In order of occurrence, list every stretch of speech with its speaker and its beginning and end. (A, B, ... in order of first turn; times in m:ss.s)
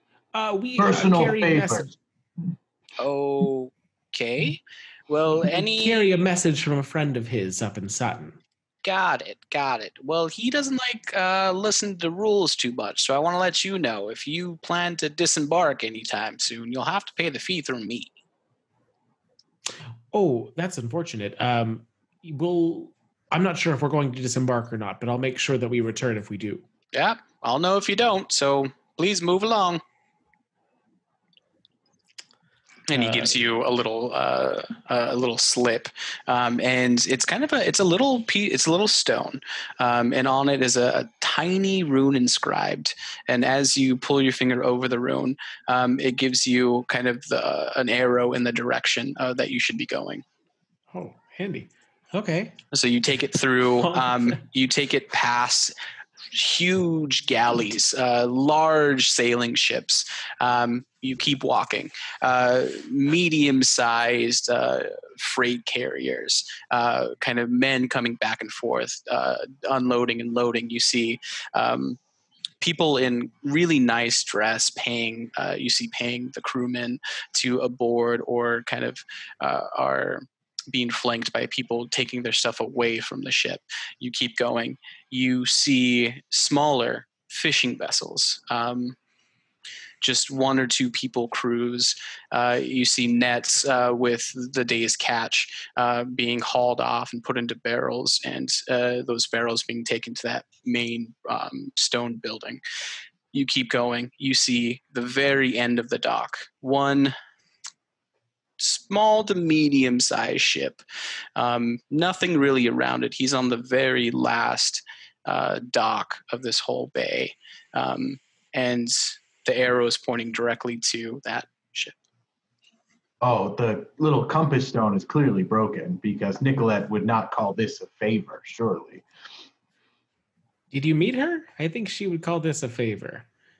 0:00.3-0:01.9 A
0:00.8-0:01.9 B
0:03.0-0:06.1 C
0:05.5-0:08.4 A
0:08.8-0:18.1 C
0:20.1-0:26.6 A
0:26.9-0:29.8 C
0:32.9-0:50.2 C
0:32.9-0:33.4 A
0:50.9-0:52.6 A
0:52.7-0:55.7 C
0:53.8-0:54.4 A
0:56.3-1:12.0 C
1:12.6-1:29.0 C
1:30.0-1:42.6 C
1:43.3-1:47.1 C
1:48.6-1:50.8 C
1:51.4-2:02.0 C
2:03.2-2:09.0 B
2:10.7-2:13.3 A